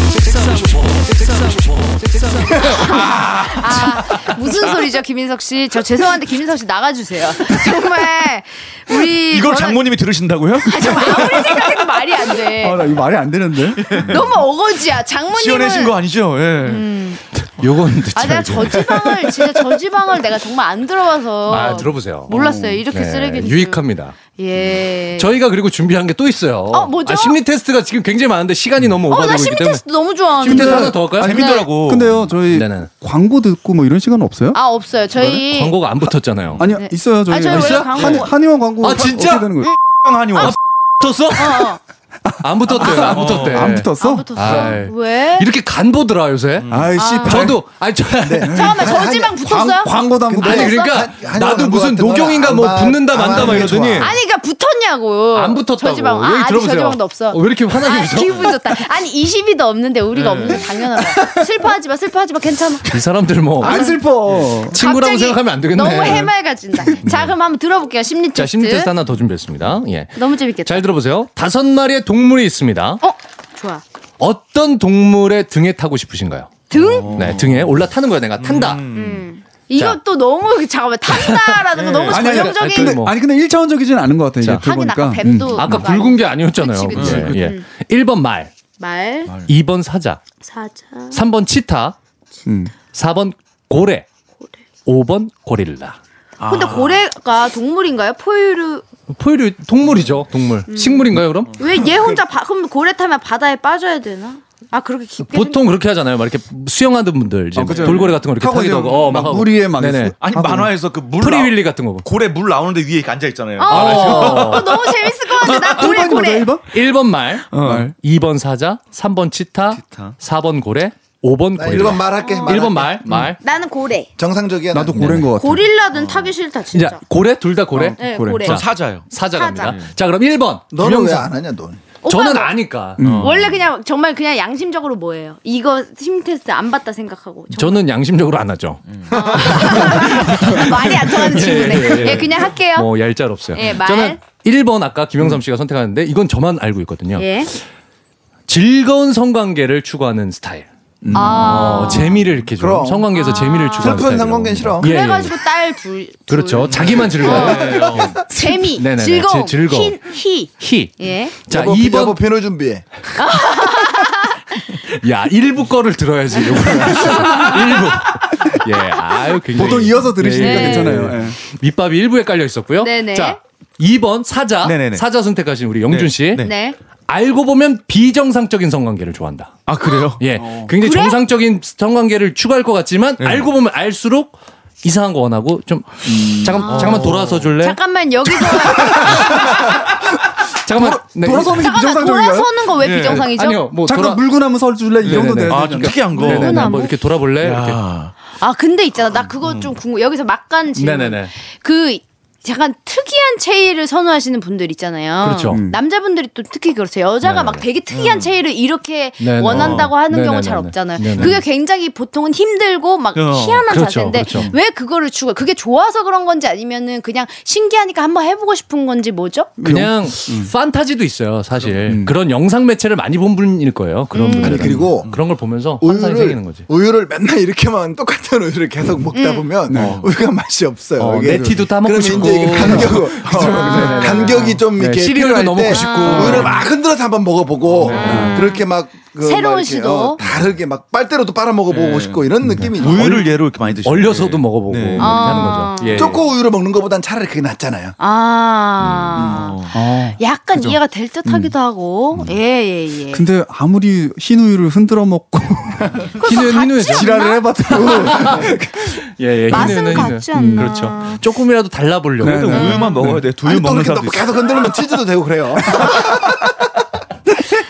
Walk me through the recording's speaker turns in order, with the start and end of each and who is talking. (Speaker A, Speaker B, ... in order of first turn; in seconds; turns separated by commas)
Speaker A: 0.4-4.5, Speaker B: 2.5-9.8, Speaker C: 9.3-11.6, Speaker B: 10.6-12.9, Speaker D: 12.6-13.9, Speaker C: 13.8-14.3, Speaker B: 13.9-15.9, Speaker C: 15.3-16.9, Speaker B: 16.6-17.2, Speaker A: 17.4-19.5, Speaker B: 18.1-25.3, Speaker A: 21.5-22.3, Speaker D: 22.3-22.8, Speaker A: 22.9-24.1, Speaker A: 25.2-29.8, Speaker B: 26.7-27.4, Speaker B: 29.1-31.7, Speaker A: 30.4-31.4, Speaker D: 30.4-31.1, Speaker C: 31.1-32.3, Speaker D: 31.8-34.6, Speaker A: 32.5-32.9, Speaker B: 34.5-35.8, Speaker D: 35.1-35.4, Speaker A: 35.3-36.7, Speaker D: 36.6-39.7, Speaker B: 36.7-38.3, Speaker A: 37.5-38.1, Speaker A: 38.8-39.7, Speaker C: 39.8-40.6, Speaker A: 40.4-41.7, Speaker B: 41.3-41.8, Speaker D: 42.3-44.8, Speaker A: 42.4-48.5, Speaker C: 42.9-43.7, Speaker B: 44.0-45.5, Speaker C: 46.6-47.0, Speaker D: 46.7-47.6, Speaker B: 47.0-47.4, Speaker E: 48.2-54.1, Speaker D: 48.5-48.9, Speaker B: 48.5-50.9, Speaker D: 49.4-50.7, Speaker A: 50.4-54.1, Speaker B: 54.0-62.9, Speaker A: 55.3-58.5, Speaker C: 60.1-60.7, Speaker A: 62.9-63.9, Speaker B: 63.6-64.0, Speaker D: 63.6-64.8, Speaker A: 64.7-66.3, Speaker B: 64.7-68.9, Speaker A: 68.3-73.0, Speaker B: 70.2-70.8, Speaker B: 73.0-73.8, Speaker A: 74.2-78.8, Speaker B: 76.7-77.4, Speaker C: 76.7-77.8, Speaker C: 78.4-79.3, Speaker B: 78.9-83.0, Speaker A: 81.1-83.1, Speaker C: 81.7-82.2, Speaker D: 82.1-85.9, Speaker B: 84.6-87.7, Speaker A: 85.5-88.5, Speaker C: 86.9-87.3, Speaker D: 87.0-87.5, Speaker B: 88.8-89.3, Speaker A: 89.5-90.2, Speaker B: 90.4-91.2, Speaker A: 91.1-92.0, Speaker D: 92.5-92.8, Speaker A: 92.9-94.0, Speaker A: 94.8-96.0, Speaker C: 96.4-97.0, Speaker B: 96.5-98.8, Speaker A: 99.1-101.5, Speaker B: 100.7-105.6, Speaker C: 101.5-101.9, Speaker A: 105.2-110.2, Speaker D: 107.5-110.7, Speaker C: 107.7-108.2, Speaker C: 110.2-115.9, Speaker A: 111.2-112.0, Speaker B: 113.6-116.5, Speaker A: 113.7-114.8, Speaker D: 115.6-116.7, Speaker A: 116.7-123.4, Speaker C: 117.5-117.9, Speaker D: 117.6-117.9, Speaker C: 119.7-120.1, Speaker E: 121.5-123.0, Speaker B: 122.2-122.8, Speaker B: 123.4-124.1, Speaker E: 124.2-125.3, Speaker D: 124.7-125.7, Speaker A: 124.9-125.3, Speaker B: 125.3-127.0, Speaker C: 125.9-126.3, Speaker A: 126.7-131.3, Speaker D: 127.7-128.4, Speaker B: 128.0-128.6, Speaker C: 128.4-129.9, Speaker B: 129.2-129.7, Speaker E: 130.7-131.8, Speaker B: 132.0-132.5, Speaker A: 132.1-133.1, Speaker D: 133.0-133.4, Speaker C: 133.0-133.6, Speaker B: 133.2-137.8, Speaker A: 137.5-147.6, Speaker B: 139.1-142.9, Speaker B: 143.5-144.2, Speaker B: 147.2-147.5, Speaker A: 148.5-155.4, Speaker D: 151.0-151.7, Speaker B: 151.1-152.2, Speaker E: 152.5-153.2, Speaker B: 153.1-154.0, Speaker E: 153.7-154.9, Speaker B: 154.8-161.3, Speaker A: 156.3-160.0, Speaker C: 156.7-158.2, Speaker A: 160.6-162.2, Speaker E: 161.5-162.8, Speaker B: 163.1-164.6, Speaker A: 164.9-176.5, Speaker B: 166.3-167.5, Speaker D: 169.5-171.4, Speaker B: 170.3-171.1, Speaker B: 172.8-173.4, Speaker C: 174.6-175.0, Speaker C: 175.9-176.5, Speaker B: 176.4-176.8, Speaker A: 177.1-187.8, Speaker C: 179.7-180.2, Speaker D: 180.4-180.7, Speaker B: 180.8-181.2, Speaker C: 183.2-183.5, Speaker E: 186.1-186.6, Speaker B: 186.5-189.5, Speaker C: 186.7-187.5, Speaker C: 188.6-189.2, Speaker D: 188.9-189.6, Speaker A: 189.1-189.5, Speaker A: 190.7-191.7, Speaker D: 190.7-192.7, Speaker B: 191.5-193.7, Speaker C: 192.8-193.3, Speaker A: 193.1-194.2, Speaker D: 193.9-196.6, Speaker C: 195.0-196.9, Speaker A: 195.0-197.8, Speaker B: 196.1-197.0, Speaker C: 197.4-198.1, Speaker B: 198.4-219.5, Speaker C: 199.4-199.7, Speaker A: 200.8-201.3, Speaker A: 205.2-205.6, Speaker D: 205.5-205.8, Speaker A: 207.2-207.6, Speaker C: 207.9-208.3, Speaker A: 209.2-211.4, Speaker C: 209.5-209.9, Speaker C: 213.1-213.7, Speaker A: 213.7-214.5, Speaker D: 219.6-220.5, Speaker A: 219.6-226.7, Speaker D: 221.9-222.1, Speaker B: 224.1-224.7, Speaker E: 224.4-225.2, Speaker E: 225.8-243.2, Speaker B: 229.1-229.5, Speaker D: 229.7-230.0, Speaker C: 229.7-230.1, Speaker A: 231.0-236.6, Speaker D: 231.0-234.6, Speaker B: 235.7-236.5, Speaker A: 237.8-238.3, Speaker B: 237.8-238.7, Speaker D: 238.0-238.4, Speaker B: 239.2-240.2, Speaker C: 241.7-245.5, Speaker A: 242.6-246.2, Speaker B: 245.0-246.2, Speaker E: 245.9-247.9, Speaker B: 248.0-253.2, Speaker E: 249.2-249.5, Speaker C: 249.3-249.7, Speaker D: 249.7-250.2, Speaker D: 251.2-251.5, Speaker D: 253.1-256.2, Speaker B: 256.2-259.0, Speaker A: 256.2-257.1, Speaker D: 256.9-258.8, Speaker A: 257.7-262.9, Speaker B: 259.5-261.2, Speaker D: 259.5-260.9, Speaker D: 262.2-263.2, Speaker B: 262.4-262.9, Speaker C: 262.4-264.5, Speaker E: 263.4-266.7, Speaker D: 265.6-266.0